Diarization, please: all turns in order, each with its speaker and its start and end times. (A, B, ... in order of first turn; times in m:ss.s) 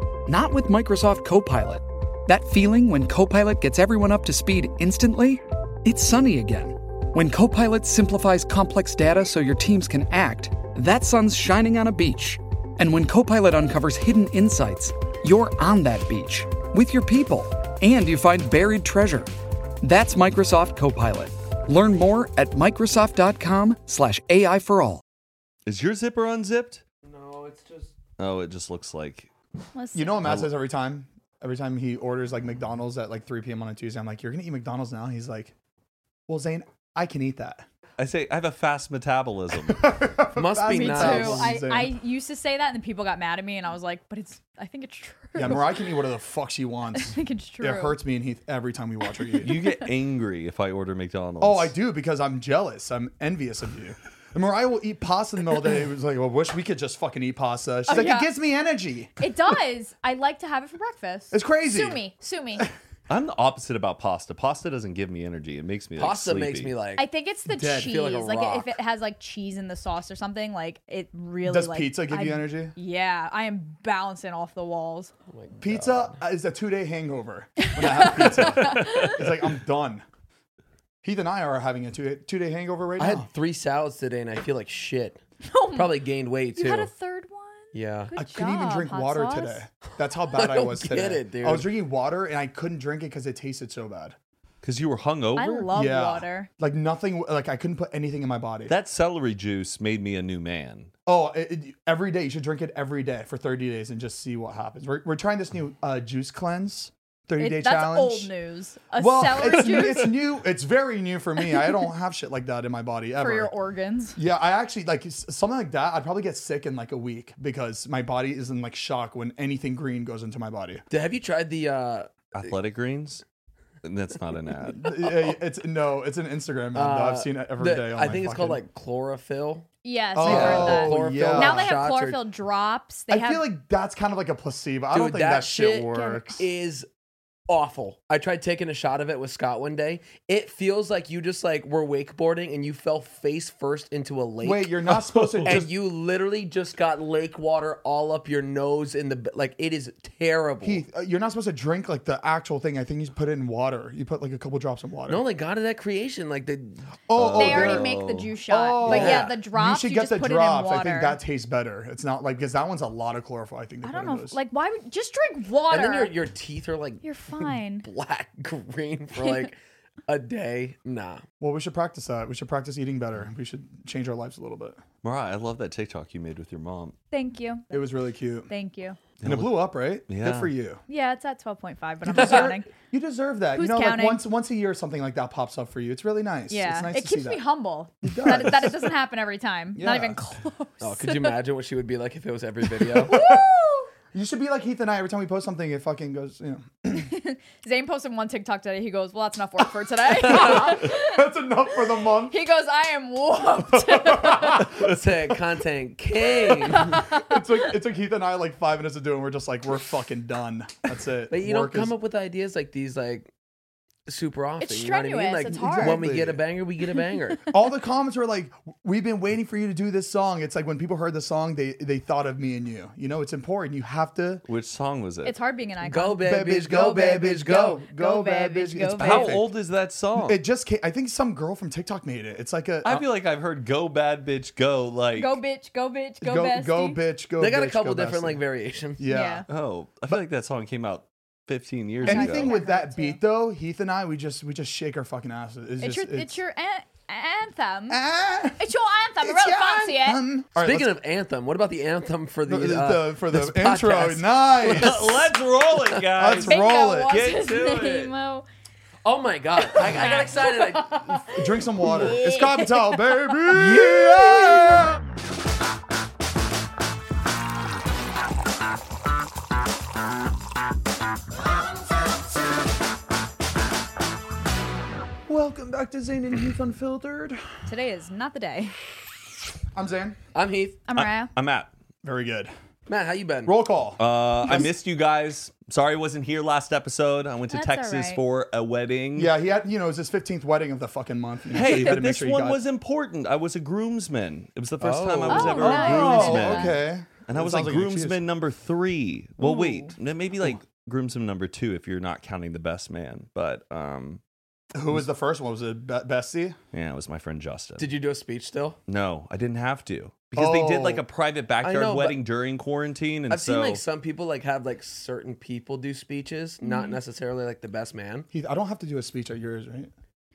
0:00.3-0:19.3 A
0:19.8-0:25.0 A
0:25.6-0:26.8 B
0:27.0-0:27.9 C
0:28.2-0:29.3 B
0:29.7-0:30.2 D
0:29.9-0:35.5 E
0:30.2-0:30.5 B
0:36.3-0:37.6 E
0:38.0-0:39.8 B
0:39.6-0:41.9 E
0:40.4-0:41.5 C
0:40.7-0:45.8 D
0:45.4-0:49.6 E
0:46.9-0:48.0 D
0:49.4-0:51.7 B
0:51.4-0:59.2 E
0:57.9-0:58.3 D
0:59.2-1:02.7 D
1:01.3-1:02.0 E
1:03.1-1:06.7 B
1:06.0-1:07.0 C
1:07.0-1:15.1 D
1:07.4-1:08.0 E
1:07.7-1:08.8 C
1:11.4-1:12.7 E
1:15.3-1:16.2 C
1:15.6-1:20.0 E
1:17.6-1:19.2 D
1:21.0-1:23.3 E
1:23.0-1:25.2 C
1:25.4-1:25.9 D
1:25.7-1:26.9 C
1:26.6-1:29.6 D
1:27.7-1:28.1 C
1:28.1-1:34.2 E
1:30.3-1:31.7 C
1:34.6-1:35.7 B
1:35.4-1:36.5 D
1:35.7-1:38.7 E
1:38.7-1:40.9 B
1:41.1-1:48.3 E
1:47.4-1:50.1 D
1:49.0-1:53.5 E
1:53.2-1:54.2 D
1:54.2-2:00.8 E
2:00.9-2:02.5 C
2:02.3-2:03.2 B
2:03.8-2:05.3 B
2:04.7-2:08.6 E
2:06.7-2:12.2 C
2:09.8-2:13.4 D
2:10.2-2:11.8 E
2:13.1-2:16.4 E
2:14.9-2:16.9 C
2:15.9-2:16.4 D
2:17.5-2:30.8 C
2:24.4-2:25.6 E
2:30.6-2:35.2 E
2:35.1-2:36.8 C
2:37.1-2:37.9 E
2:37.1-2:38.3 B
2:37.4-2:41.2 D
2:38.5-2:44.4 E
2:38.8-2:39.4 C
2:43.8-2:46.1 D
2:45.7-2:47.0 C
2:47.0-2:47.8 D
2:47.8-2:51.2 C
2:49.2-2:49.5 D
2:51.4-2:54.8 E
2:55.0-2:57.0 B
2:57.1-2:57.7 D
2:57.7-2:58.5 E
2:58.5-2:59.0 D
2:59.2-3:00.5 B
2:59.2-3:00.8 E
3:00.9-3:02.7 D
3:02.0-3:07.4 E
3:03.5-3:04.2 D
3:06.5-3:11.3 D
3:08.0-3:08.9 E
3:09.8-3:10.2 E
3:10.8-3:13.1 C
3:13.0-3:13.5 E
3:13.0-3:13.9 D
3:14.1-3:17.1 E
3:16.9-3:21.2 D
3:20.2-3:22.4 E
3:22.2-3:24.7 D
3:23.7-3:24.8 E
3:24.8-3:27.0 C
3:26.7-3:27.4 D
3:26.9-3:31.9 E
3:31.3-3:33.3 C
3:34.1-3:37.5 C
3:34.6-3:36.0 D
3:35.5-3:36.4 E
3:37.5-3:44.4 E
3:44.4-3:45.4 B
3:45.2-3:49.4 D
3:45.8-3:47.8 C
3:46.2-3:49.5 E
3:49.0-3:50.4 B
3:50.2-3:53.0 E
3:52.8-3:55.4 B
3:55.1-3:57.0 D
3:56.2-3:58.4 E
3:57.4-3:59.0 C
3:59.0-3:59.4 E
3:59.1-3:59.4 D
3:59.5-4:02.5 B
4:02.0-4:06.4 E
4:02.0-4:03.2 D
4:05.8-4:08.0 D
4:07.9-4:08.6 E
4:08.6-4:10.2 D
4:09.2-4:11.0 E
4:10.6-4:15.3 C
4:12.4-4:15.2 E
4:14.6-4:18.1 B
4:16.2-4:17.2 E
4:16.4-4:18.4 D
4:17.3-4:17.9 C
4:19.0-4:21.1 C
4:19.7-4:23.2 D
4:21.2-4:25.0 E
4:21.8-4:22.1 C
4:23.5-4:24.8 C
4:35.3-4:37.5 E
4:37.6-4:38.8 D
4:39.7-4:40.2 E
4:40.3-4:40.8 C
4:40.9-4:41.3 D
4:41.0-4:41.7 B
4:42.0-4:42.5 E
4:42.9-4:43.5 C
4:43.4-4:44.7 E
4:44.0-4:49.3 B
4:47.5-4:48.2 D
4:49.1-4:52.6 E
4:51.5-5:04.2 B
4:51.6-4:51.9 D
4:54.8-4:55.8 C
4:55.3-4:56.8 D
4:55.6-4:58.2 E
4:59.4-4:59.9 D
5:04.7-5:06.6 E
5:06.7-5:07.9 B
5:07.8-5:08.8 C
5:08.9-5:13.8 B
5:10.3-5:11.0 E
5:11.6-5:12.2 C
5:13.3-5:18.3 C
5:16.6-5:17.0 D
5:18.3-5:19.9 E